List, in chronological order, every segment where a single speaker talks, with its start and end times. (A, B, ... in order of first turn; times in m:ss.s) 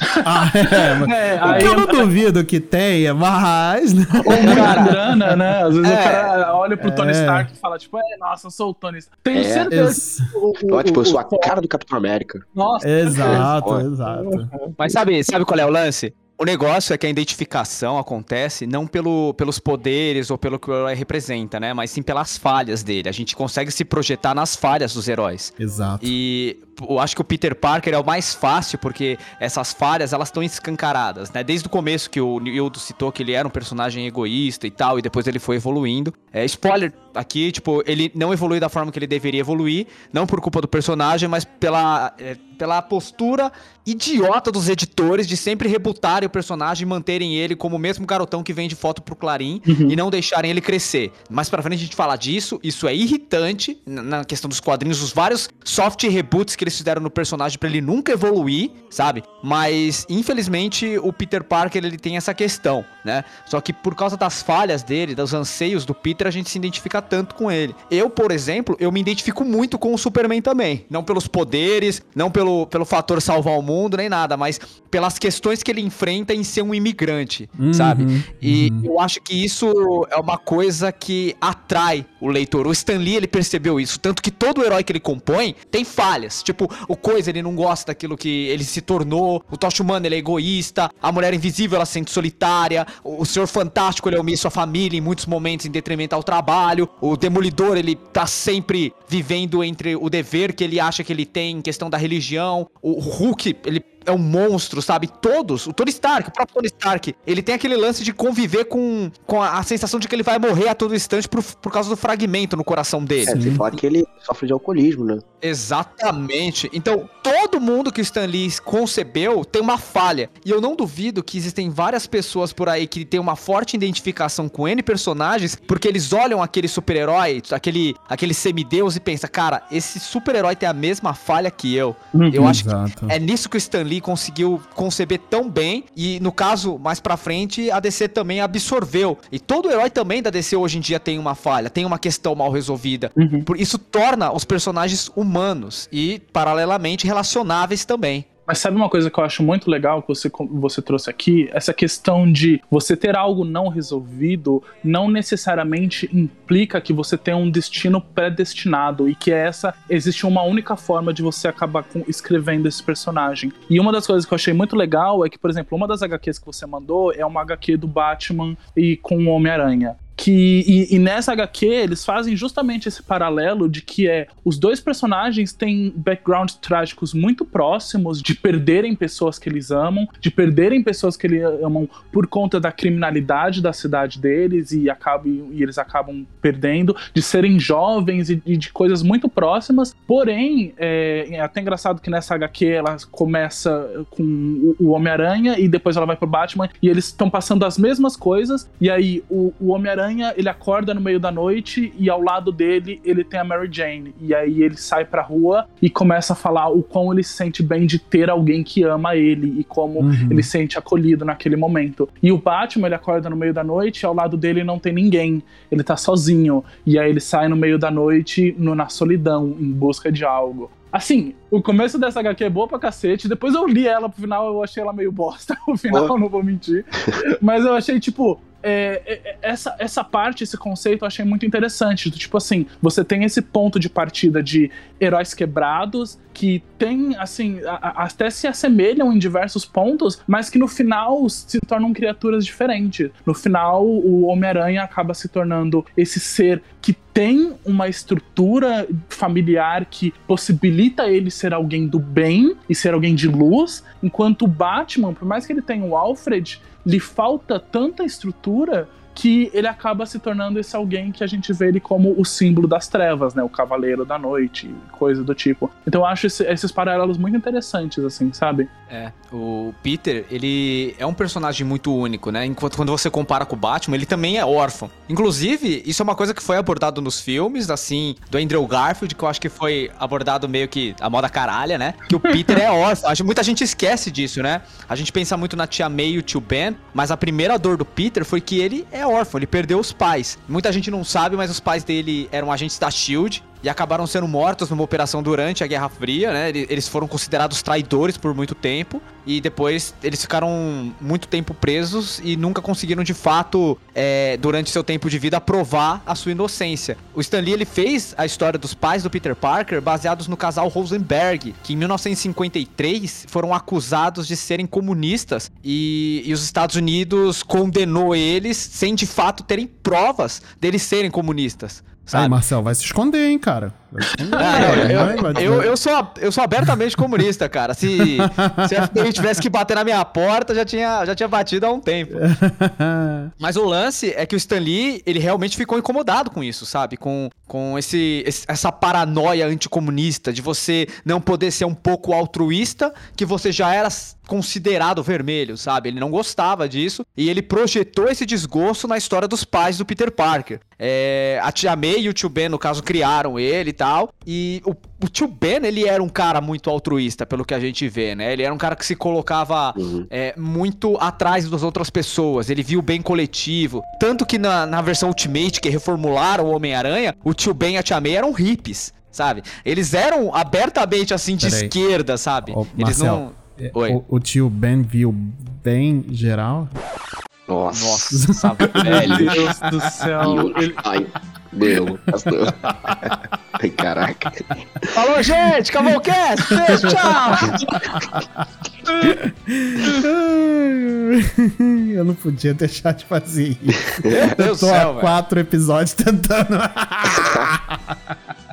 0:00.1-0:02.1 A
0:00.2-0:05.4 B
0:01.4-0:01.7 C
0:04.3-0:11.6 A
0:04.3-0:04.7 C
0:04.4-0:05.0 D
0:05.8-0:06.3 D
0:06.8-0:07.5 B
0:09.3-0:09.7 C
0:09.7-0:10.3 B
0:10.7-0:12.4 C
0:12.5-0:13.5 A
0:12.8-0:14.5 B
0:13.2-0:13.9 C
0:14.1-0:14.8 A
0:14.8-1:53.4 D
0:25.6-0:26.1 B
0:49.7-0:50.0 A
1:17.6-1:18.9 B
1:53.2-1:55.2 C
1:53.3-1:53.7 B
1:55.4-2:28.3 D
2:12.1-2:12.6 A
2:12.3-2:13.2 B
2:23.2-2:23.5 A
2:28.5-4:28.7 A
3:30.0-3:30.5 B
4:28.9-5:22.4 D
5:22.1-5:25.7 B
5:24.1-5:25.2 A
5:24.4-5:32.2 D
5:24.5-5:25.6 C
5:28.0-5:29.3 B
5:32.1-5:33.3 B
5:33.4-6:14.0 D
5:59.8-6:00.1 C
6:11.4-6:11.8 B
6:12.5-6:16.8 B
6:17.5-6:19.3 C
6:17.7-6:19.4 D
6:18.1-6:20.0 B
6:19.1-6:20.8 A
6:20.2-6:24.5 C
6:21.7-6:23.2 B
6:24.9-6:27.6 D
6:26.5-6:27.0 B
6:27.7-6:28.4 B
6:29.0-6:38.2 B
6:33.9-6:34.4 C
6:34.1-6:35.2 D
6:37.2-6:37.5 C